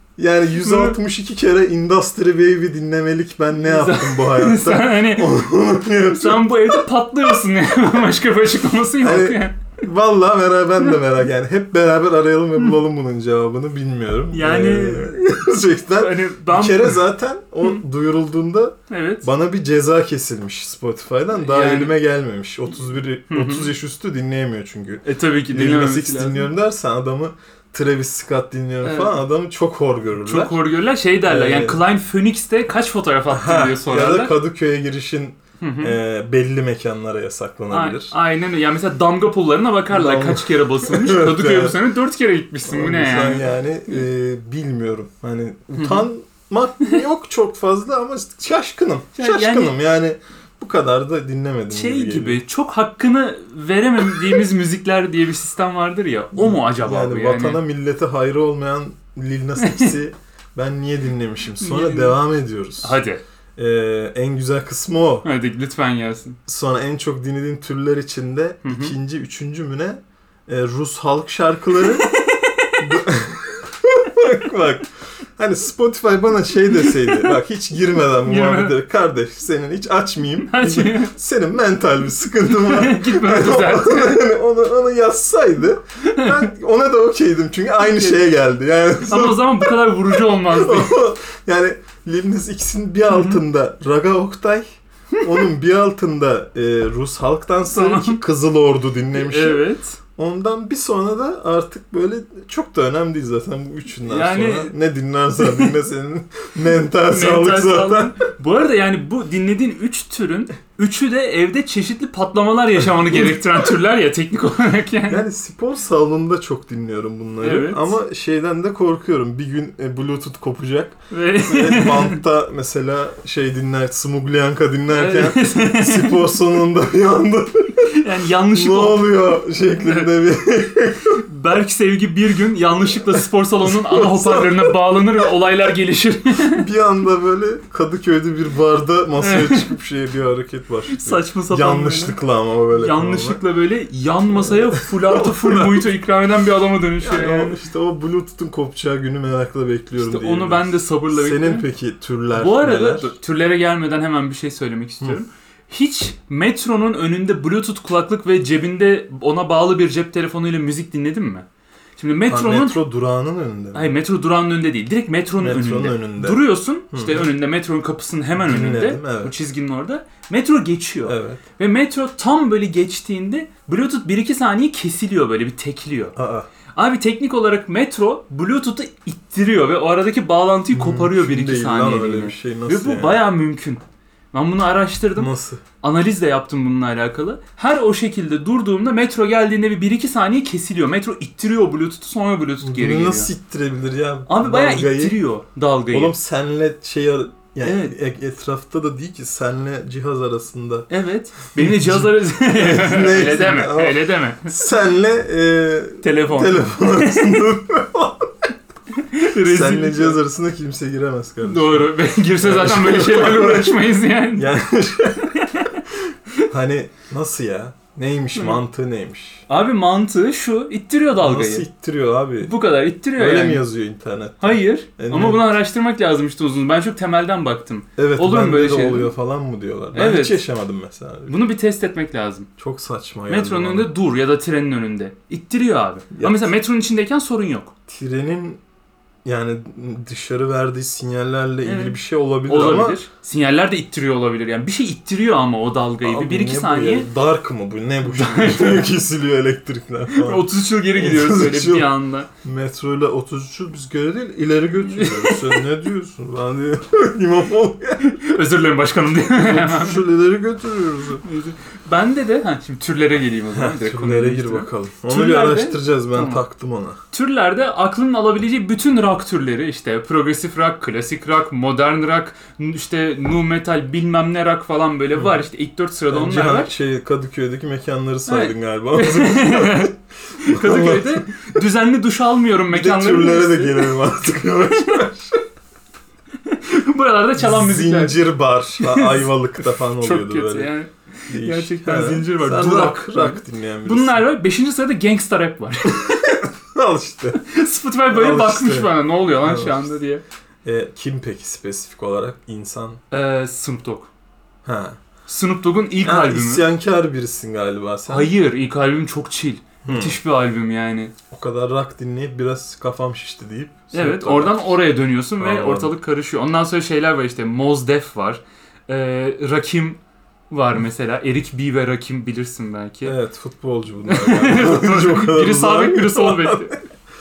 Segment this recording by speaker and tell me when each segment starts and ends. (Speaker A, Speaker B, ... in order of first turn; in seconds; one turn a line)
Speaker A: 0.2-6.8
Speaker B: 0.6-0.9
Speaker B: 3.7-5.3
Speaker B: 6.2-9.6
Speaker A: 9.0-30.6
Speaker B: 14.3-15.2
Speaker B: 16.0-17.0
Speaker B: 18.9-19.3
Speaker B: 21.3-21.9
Speaker B: 23.3-23.7
Speaker B: 25.1-26.5
Speaker B: 28.8-29.2
Speaker B: 30.2-34.4
Speaker A: 31.2-31.8
Speaker A: 33.3-38.1
Speaker B: 35.6-36.0
Speaker B: 37.7-43.5
Speaker A: 39.9-41.8
Speaker A: 42.7-52.4
Speaker B: 45.8-46.1
Speaker B: 49.2-49.7
Speaker B: 51.7-57.6
Speaker A: 56.4-63.0
Speaker B: 59.6-59.9
Speaker B: 61.6-62.2
Speaker B: 62.8-63.2
Speaker A: 63.6-65.3
Speaker B: 65.2-66.4
Speaker A: 66.5-72.1
Speaker B: 68.6-68.9
Speaker B: 71.9-72.9
Speaker A: 72.8-94.7
Speaker B: 76.9-77.3
Speaker B: 78.2-78.8
Speaker B: 80.4-81.1
Speaker B: 82.5-84.2
Speaker B: 86.1-86.5
Speaker B: 87.8-88.3
Speaker B: 89.0-91.0
Speaker B: 93.1-93.4
Speaker A: 95.2-99.6
Speaker B: 97.7-98.2
Speaker B: 99.1-100.0
Speaker A: 100.2-108.1
Speaker B: 104.1-104.7
Speaker B: 105.4-105.7
Speaker B: 107.1-115.2
Speaker A: 115.1-127.9
Speaker B: 117.4-117.9
Speaker B: 121.1-122.2
Speaker B: 124.9-126.2
Speaker B: 127.9-129.1
Speaker A: 128.5-131.2
Speaker B: 131.2-136.6
Speaker A: 133.7-134.8
Speaker A: 136.5-143.4
Speaker B: 139.2-139.7
Speaker B: 140.9-142.2
Speaker B: 142.7-147.6
Speaker A: 144.3-145.9
Speaker A: 147.0-153.1
Speaker B: 150.0-151.7
Speaker B: 152.4-161.4
Speaker B: 162.0-162.8
Speaker A: 162.3-163.9
Speaker B: 163.7-176.2
Speaker A: 165.4-167.3
Speaker A: 168.4-169.3
Speaker A: 171.1-171.4
Speaker A: 176.2-176.5
Speaker B: 176.8-183.8
Speaker A: 180.7-183.3
Speaker B: 184.3-193.3
Speaker A: 185.2-185.6
Speaker A: 192.6-195.2
Speaker B: 194.3-196.2
Speaker A: 195.9-200.9
Speaker B: 197.6-197.9
Speaker B: 200.9-204.5
Speaker A: 201.6-208.3
Speaker B: 206.0-207.4
Speaker B: 208.9-210.2
Speaker A: 209.3-213.8
Speaker B: 211.4-214.5
Speaker A: 214.4-215.4
Speaker B: 215.2-215.8
Speaker A: 216.4-219.4
Speaker B: 219.5-221.7
Speaker A: 221.2-222.6
Speaker B: 222.4-223.6
Speaker A: 223.2-225.4
Speaker B: 224.4-229.1
Speaker A: 228.0-231.3
Speaker B: 229.9-230.4
Speaker B: 231.3-232.5
Speaker A: 232.6-233.9
Speaker B: 233.3-237.7
Speaker A: 236.1-236.5
Speaker A: 237.9-238.6
Speaker A: 239.2-243.0
Speaker B: 241.7-247.1
Speaker A: 246.0-251.9
Speaker B: 248.1-248.9
Speaker B: 250.1-252.3
Speaker A: 252.4-258.1
Speaker B: 254.8-255.6
Speaker B: 258.0-260.0
Speaker A: 259.4-261.2
Speaker B: 261.2-266.4
Speaker A: 263.5-267.0
Speaker B: 267.1-276.7
Speaker A: 276.1-281.6
Speaker B: 278.3-284.0
Speaker A: 282.7-285.4
Speaker B: 286.4-288.2
Speaker A: 287.4-290.7
Speaker B: 288.8-296.2
Speaker A: 291.3-294.2
Speaker A: 295.9-297.4
Speaker B: 297.4-300.2
Speaker A: 298.1-300.0
Speaker A: 300.6-303.0
Speaker B: 303.1-304.1
Speaker A: 304.6-305.0
Speaker B: 305.3-306.6
Speaker A: 306.0-308.3
Speaker B: 308.1-311.1
Speaker A: 309.8-310.2
Speaker A: 311.3-314.8
Speaker B: 313.9-323.2
Speaker A: 315.4-315.9
Speaker A: 323.1-326.8
Speaker B: 324.1-326.8